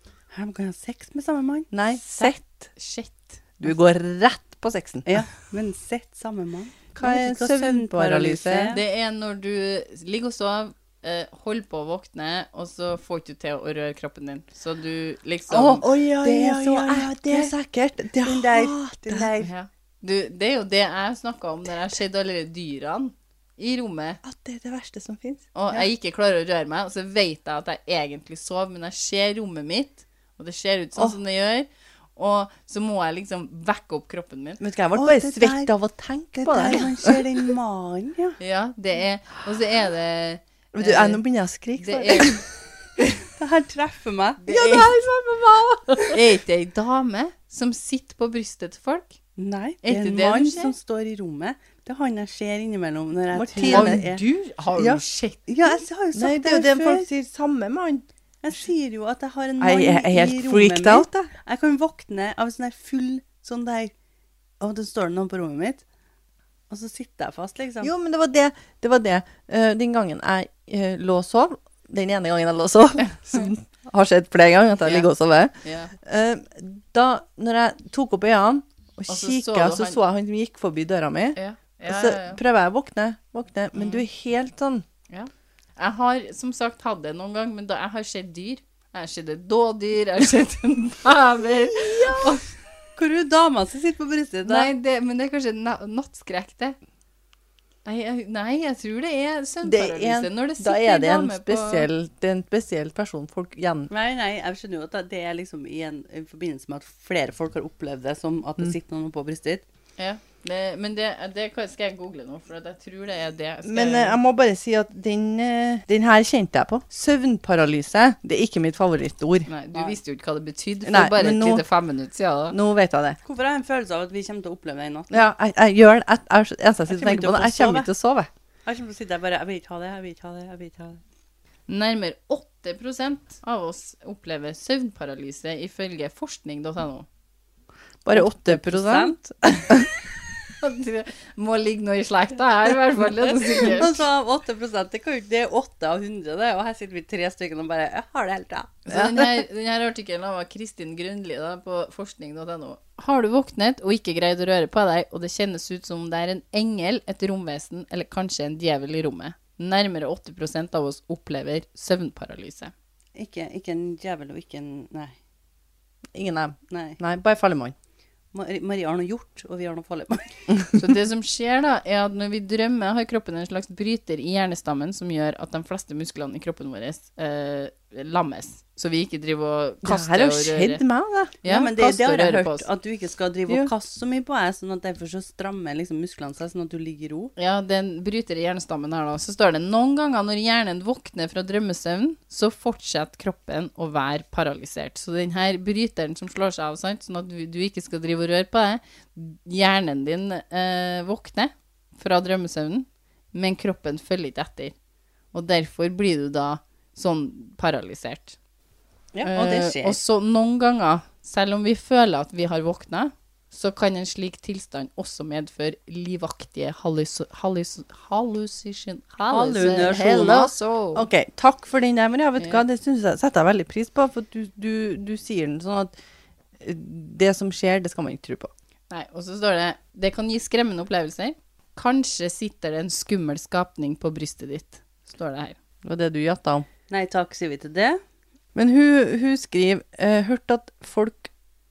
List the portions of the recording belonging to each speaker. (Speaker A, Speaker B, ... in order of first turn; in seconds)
Speaker A: 0.3-1.7, 5.1-8.8, 16.1-17.5, 18.2-19.5, 35.0-35.7, 36.4-38.4, 43.4-46.2, 49.4-54.2, 55.5-57.1, 58.4-63.9, 64.6-65.8, 66.7-67.9, 93.0-94.7, 103.9-109.6, 123.2-125.1, 126.9-127.9, 128.7-131.0, 138.1-139.2, 143.7-148.8, 163.2-165.2, 166.7-167.0, 168.3-170.3, 181.4-187.3, 209.2-210.0, 219.3-220.5, 236.9-238.0
Speaker B: 1.7-2.7, 3.6-5.1, 7.0-8.7, 15.5-19.3, 24.2-25.5, 34.6-37.2, 40.7-42.4, 53.4-54.1, 54.8-55.0, 56.1-58.0, 59.6-61.3, 67.8-81.4, 81.9-84.8, 91.9-92.2, 99.6-103.9, 113.7-119.5, 120.9-121.6, 122.5-123.2, 125.1-128.3, 138.1-140.1, 148.9-149.4, 166.1-167.7, 179.8-181.4, 209.2-209.5, 220.9-225.9, 226.6-228.5, 235.8-236.7, 238.6-241.3
Speaker C: 1.9-3.4, 8.7-15.9, 19.4-24.2, 25.5-34.6, 38.4-41.2, 41.8-42.4, 44.4-44.9, 46.1-49.1, 49.8-50.7, 53.7-55.4, 74.8-75.1, 75.6-75.9, 79.1-80.0, 81.4-82.4, 83.8-84.0, 85.1-92.5, 94.5-96.8, 97.8-101.9, 110.0-114.2, 119.5-122.6, 131.7-137.1, 140.6-144.0, 148.9-162.7, 170.7-180.8, 181.4-182.7, 187.4-204.7, 205.3-208.4, 209.2-221.1, 222.4-222.6, 228.9-235.6